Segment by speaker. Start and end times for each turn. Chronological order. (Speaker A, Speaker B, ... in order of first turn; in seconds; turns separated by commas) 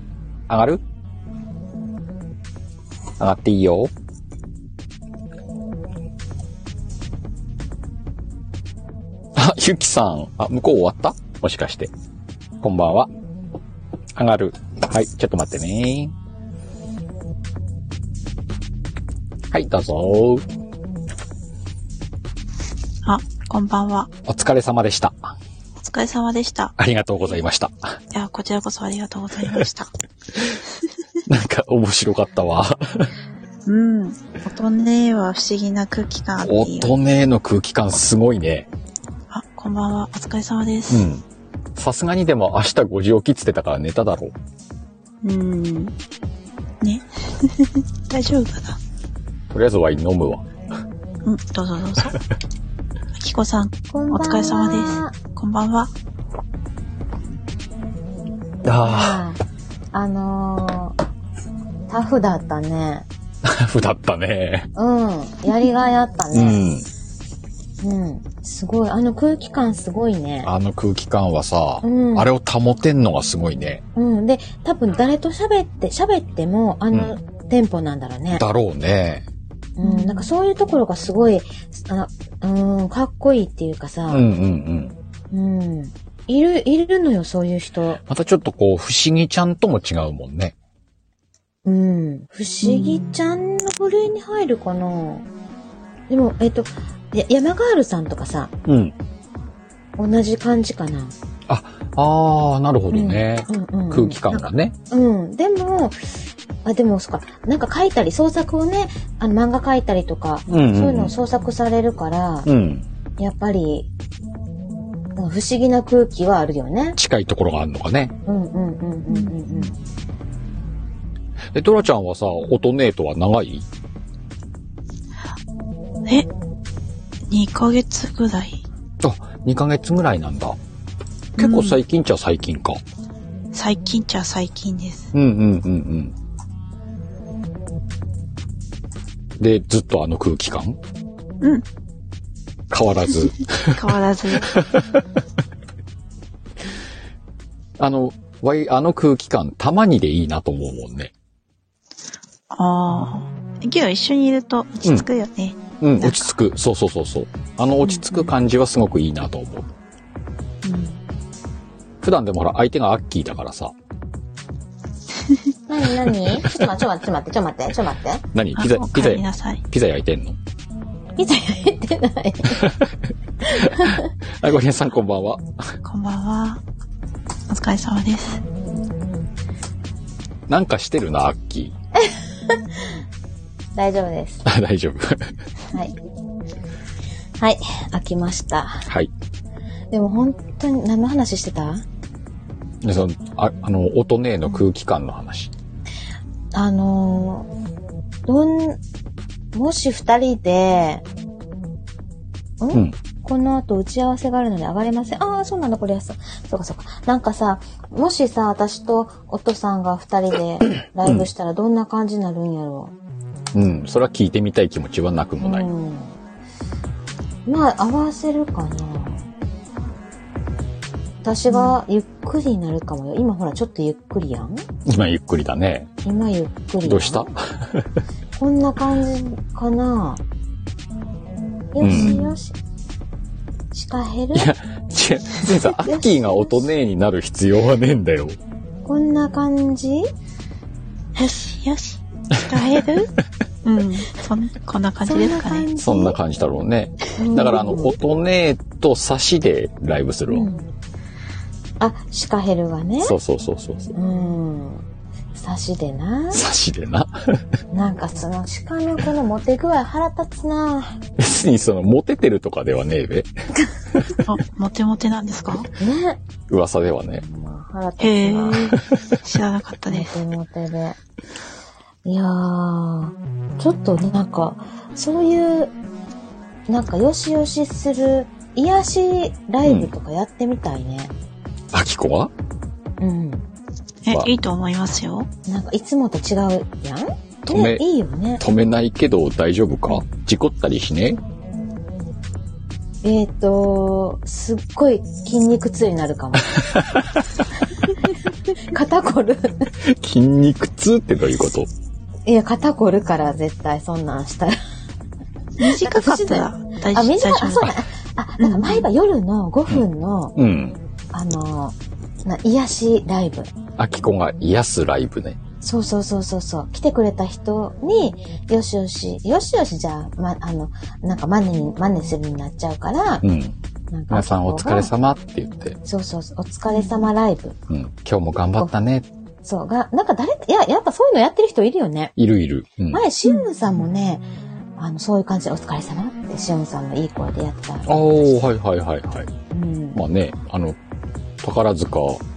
Speaker A: 0.5-0.8, Speaker A: 3.2-3.9, Speaker A: 9.3-11.9, Speaker A: 12.6-13.1, Speaker A: 14.2-16.1, Speaker A: 19.5-20.4, Speaker B: 23.0-24.1, Speaker A: 24.2-25.3, Speaker B: 25.8-26.7, Speaker A: 26.8-28.0, Speaker B: 28.1-29.9, Speaker A: 31.2-33.1, Speaker B: 33.6-36.9, Speaker A: 36.4-38.7, Speaker B: 39.3-41.1, Speaker A: 40.9-41.2, Speaker A: 41.8-44.3, Speaker B: 45.2-45.9, Speaker B: 46.8-48.8, Speaker A: 49.5-50.5, Speaker B: 51.2-52.2, Speaker B: 53.2-55.9, Speaker C: 53.9-55.1, Speaker A: 58.6-59.2, Speaker C: 58.9-59.4, Speaker C: 59.9-61.0, Speaker C: 61.9-63.1, Speaker A: 63.4-64.7, Speaker C: 64.7-66.7, Speaker A: 66.3-66.9, Speaker C: 67.8-70.5, Speaker A: 70.4-73.8, Speaker C: 71.8-72.3, Speaker C: 73.9-78.4, Speaker A: 78.3-79.2, Speaker C: 79.8-84.2, Speaker B: 79.8-80.2, Speaker A: 84.1-84.9, Speaker C: 85.3-88.0, Speaker A: 88.0-90.5, Speaker C: 91.6-95.2, Speaker B: 92.6-93.0, Speaker C: 96.1-98.5, Speaker A: 98.7-98.9, Speaker C: 100.0-101.1, Speaker A: 101.5-104.7, Speaker C: 102.9-112.5, Speaker A: 110.5-111.1, Speaker A: 112.4-112.8, Speaker C: 113.2-113.9, Speaker C: 115.2-117.0, Speaker A: 117.0-118.1, Speaker C: 118.2-119.7, Speaker A: 121.5-123.7, Speaker B: 127.3-128.6, Speaker A: 129.0-130.6, Speaker B: 131.4-131.8, Speaker A: 131.4-132.8, Speaker B: 133.5-135.1, Speaker A: 135.1-136.1, Speaker A: 139.4-140.8, Speaker A: 142.7-143.8, Speaker B: 143.7-144.5, Speaker A: 144.4-145.0, Speaker A: 147.8-151.1, Speaker B: 152.5-156.3, Speaker A: 155.8-159.7, Speaker B: 157.8-158.3, Speaker B: 160.6-161.0, Speaker A: 162.0-163.7, Speaker C: 165.7-168.2, Speaker A: 168.3-170.4, Speaker B: 168.6-169.6, Speaker C: 171.2-172.7, Speaker A: 172.4-172.9, Speaker A: 173.4-175.7, Speaker C: 173.5-174.1, Speaker B: 175.8-176.6, Speaker B: 177.5-178.4, Speaker A: 180.5-181.7, Speaker C: 182.0-182.9, Speaker C: 183.7-184.4, Speaker A: 184.4-185.3, Speaker C: 187.4-188.9, Speaker C: 189.9-191.8, Speaker A: 192.8-195.5, Speaker C: 196.5-197.5, Speaker C: 198.2-198.8, Speaker C: 199.5-201.0, Speaker C: 202.6-212.9, Speaker A: 211.0-211.3, Speaker A: 213.5-215.7, Speaker C: 215.4-216.2, Speaker C: 217.4-219.3, Speaker C: 221.2-224.6, Speaker A: 224.8-225.9, Speaker C: 226.0-227.3, Speaker A: 226.8-227.9, Speaker C: 228.3-230.2, Speaker C: 231.7-232.6, Speaker A: 231.8-232.2, Speaker B: 231.9-232.3, Speaker C: 233.7-234.5, Speaker A: 234.3-238.4, Speaker C: 235.7-236.7, Speaker C: 238.8-240.1, Speaker B: 241.2-243.1, Speaker B: 243.6-245.7, Speaker C: 245.1-246.2, Speaker A: 245.8-250.5, Speaker C: 247.2-247.9, Speaker C: 250.3-250.7, Speaker C: 251.8-253.2, Speaker A: 253.0-253.9, Speaker C: 253.9-256.4, Speaker A: 256.3-257.4, Speaker C: 257.7-261.0, Speaker A: 261.2-263.3, Speaker B: 264.2-265.7, Speaker C: 265.8-266.2, Speaker A: 266.5-267.2, Speaker C: 267.2-269.2, Speaker B: 268.0-270.1, Speaker C: 269.9-271.0, Speaker C: 272.0-275.7, Speaker C: 276.7-281.1, Speaker A: 279.6-279.9, Speaker A: 281.7-282.3, Speaker C: 283.0-283.4, Speaker B: 284.0-285.3, Speaker C: 285.4-288.4, Speaker A: 287.5-287.8, Speaker A: 288.4-291.2, Speaker C: 293.0-296.5, Speaker A: 296.7-297.0, Speaker C: 298.1-299.7, Speaker A: 299.8-301.7, Speaker C: 302.2-304.6, Speaker B: 305.6-307.7, Speaker C: 305.6-310.3, Speaker B: 308.4-308.9, Speaker A: 309.7-310.8, Speaker C: 311.1-313.5, Speaker A: 313.8-315.4, Speaker C: 315.6-323.2, Speaker A: 323.2-323.5, Speaker C: 323.9-324.9, Speaker A: 324.1-325.8, Speaker C: 325.8-327.6, Speaker A: 327.7-329.1, Speaker C: 329.4-332.1, Speaker A: 332.2-333.0, Speaker C: 332.9-334.2, Speaker C: 334.8-338.3, Speaker A: 337.9-339.3, Speaker C: 339.5-340.0, Speaker A: 339.9-340.8, Speaker A: 341.4-342.2